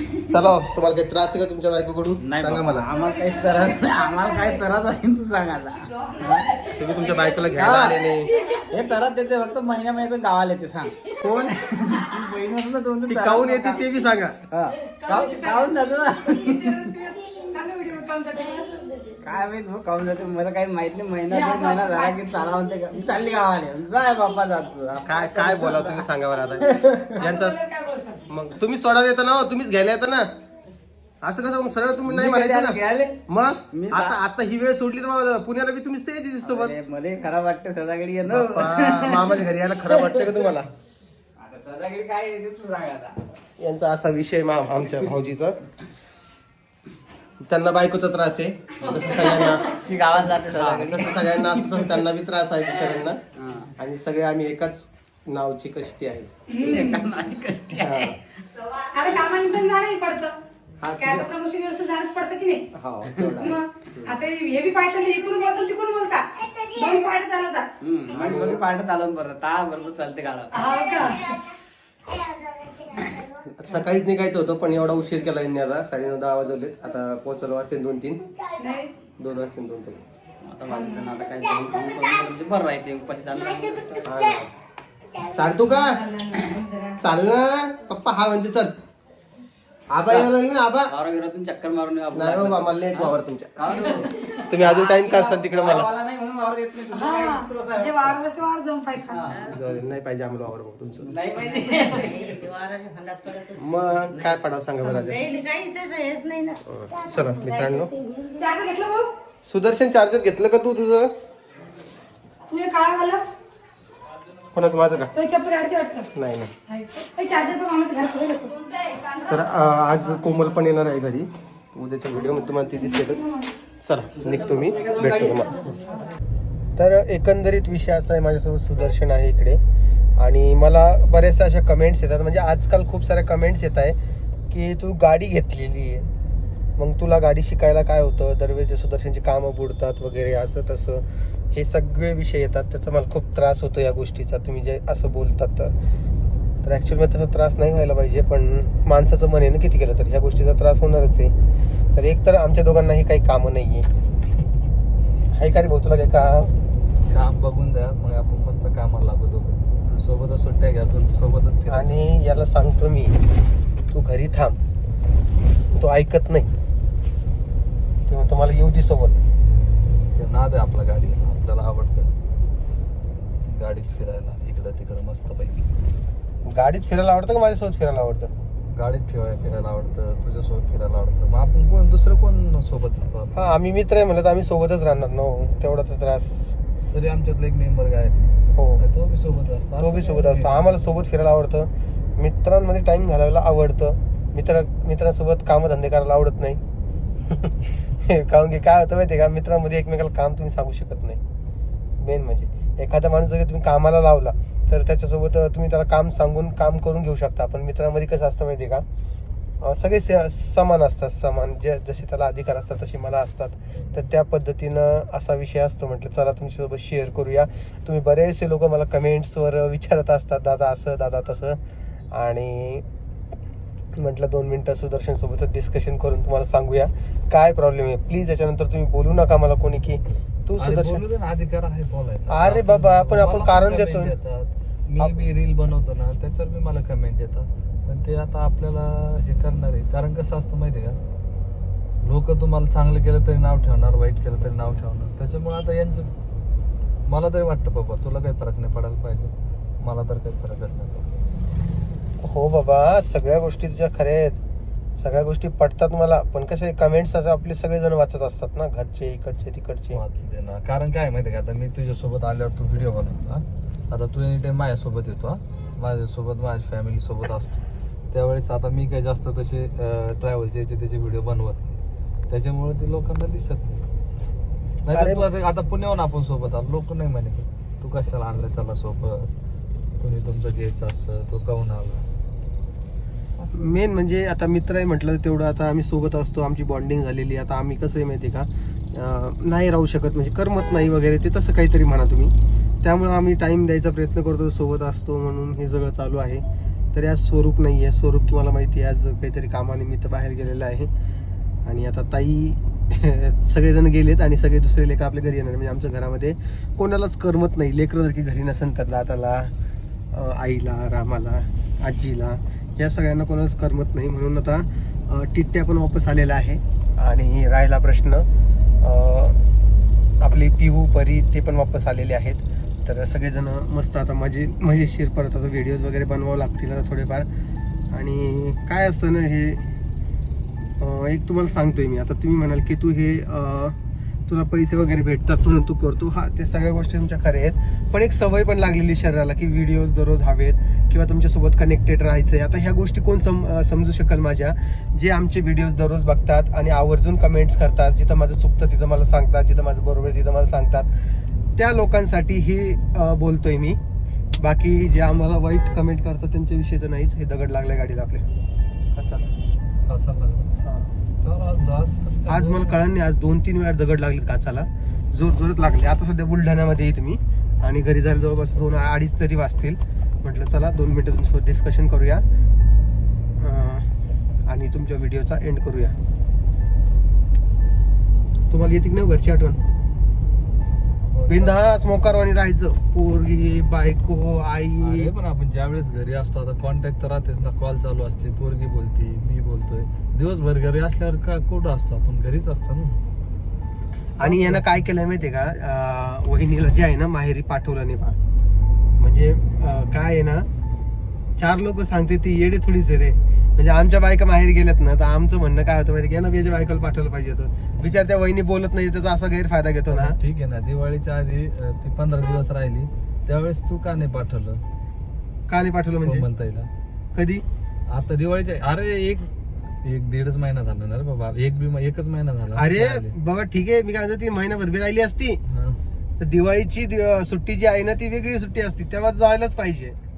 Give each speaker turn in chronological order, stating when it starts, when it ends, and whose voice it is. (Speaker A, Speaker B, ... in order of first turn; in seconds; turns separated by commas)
Speaker A: 0.3-2.9, Speaker B: 2.2-6.5, Speaker C: 2.8-4.7, Speaker C: 6.0-6.8, Speaker A: 6.8-8.3, Speaker B: 7.4-8.1, Speaker C: 8.3-8.7, Speaker B: 8.7-13.9, Speaker A: 13.1-14.4, Speaker B: 14.5-17.0, Speaker C: 14.9-19.0, Speaker B: 19.2-27.2, Speaker C: 21.3-22.2, Speaker A: 25.0-27.6, Speaker C: 27.2-28.3, Speaker A: 28.3-30.3, Speaker A: 31.2-36.8, Speaker B: 32.0-33.2, Speaker B: 33.7-34.2, Speaker B: 36.4-40.5, Speaker A: 38.3-40.7, Speaker B: 41.4-43.2, Speaker A: 43.6-45.6, Speaker A: 47.4-53.2, Speaker B: 48.9-51.9, Speaker B: 53.4-53.7, Speaker A: 53.8-56.3, Speaker C: 56.5-57.1, Speaker B: 56.6-58.1, Speaker A: 57.8-58.2, Speaker C: 58.9-60.4, Speaker A: 60.8-61.3, Speaker C: 61.0-62.6, Speaker A: 62.7-64.2, Speaker C: 63.4-67.7, Speaker B: 67.8-71.0, Speaker A: 68.1-68.6, Speaker C: 70.5-71.4, Speaker A: 73.5-78.2, Speaker C: 78.6-78.9, Speaker A: 79.2-80.0, Speaker B: 80.4-84.2, Speaker C: 80.7-81.2, Speaker A: 84.0-84.5, Speaker A: 85.2-86.0, Speaker C: 85.6-87.0, Speaker A: 87.0-88.8, Speaker A: 89.9-90.9, Speaker B: 90.9-98.2, Speaker A: 92.1-95.9, Speaker C: 96.9-99.3, Speaker B: 99.0-99.4, Speaker D: 99.3-99.6, Speaker A: 99.5-101.1, Speaker B: 101.0-102.3, Speaker D: 101.5-106.6, Speaker A: 103.6-105.2, Speaker A: 106.7-107.9, Speaker D: 107.8-108.5, Speaker C: 108.4-109.1, Speaker A: 109.4-111.1, Speaker C: 112.5-113.2, Speaker A: 114.5-115.1, Speaker C: 115.1-116.1, Speaker A: 116.2-116.5, Speaker C: 116.7-119.2, Speaker A: 119.3-123.3, Speaker C: 122.7-123.5, Speaker A: 123.8-125.7, Speaker B: 124.2-125.7, Speaker C: 125.8-126.1, Speaker A: 126.8-129.6, Speaker A: 130.2-134.0, Speaker A: 134.5-136.1, Speaker A: 136.8-145.8, Speaker A: 146.6-151.3, Speaker A: 151.9-153.9, Speaker A: 155.3-156.5, Speaker E: 157.1-162.0, Speaker A: 161.7-163.2, Speaker A: 163.9-164.6, Speaker A: 165.7-166.5, Speaker A: 168.1-169.2, Speaker E: 170.1-172.1, Speaker E: 173.4-175.6, Speaker A: 176.5-178.3, Speaker E: 178.7-183.3, Speaker A: 183.3-186.6, Speaker E: 186.9-190.5, Speaker A: 188.6-188.8, Speaker A: 189.8-196.6, Speaker A: 198.1-201.2, Speaker A: 202.0-208.9, Speaker A: 209.6-221.6, Speaker A: 222.1-222.8, Speaker A: 224.0-231.0, Speaker E: 230.6-241.0, Speaker A: 232.3-234.2, Speaker E: 242.0-246.1, Speaker E: 247.1-251.1, Speaker A: 252.2-254.4, Speaker A: 255.0-260.0, Speaker E: 259.9-271.8, Speaker E: 272.3-273.8, Speaker E: 274.9-279.3, Speaker A: 274.9-275.2, Speaker E: 280.0-282.1, Speaker E: 283.4-283.8, Speaker A: 283.6-296.4, Speaker A: 296.9-300.9, Speaker A: 301.6-309.5, Speaker A: 310.1-318.3, Speaker A: 318.8-319.4, Speaker A: 320.2-327.3, Speaker A: 327.9-329.6, Speaker A: 330.8-333.8, Speaker A: 334.3-350.9, Speaker A: 351.6-353.8, Speaker A: 354.4-358.3, Speaker A: 359.0-359.3, Speaker E: 359.9-360.5, Speaker A: 360.6-360.9, Speaker E: 361.2-362.8, Speaker A: 362.3-372.2, Speaker A: 373.4-373.9, Speaker A: 374.5-375.9, Speaker A: 378.5-379.6, Speaker E: 381.1-381.6, Speaker A: 381.3-385.1, Speaker E: 384.8-393.0, Speaker E: 394.2-394.9, Speaker A: 394.2-398.2, Speaker A: 399.0-400.5, Speaker A: 401.4-410.2, Speaker E: 409.9-414.6, Speaker A: 415.5-416.3, Speaker E: 416.0-416.7, Speaker A: 417.1-417.4, Speaker E: 417.9-419.3, Speaker E: 419.8-423.1, Speaker A: 422.6-425.4, Speaker E: 425.5-425.8, Speaker A: 426.2-429.9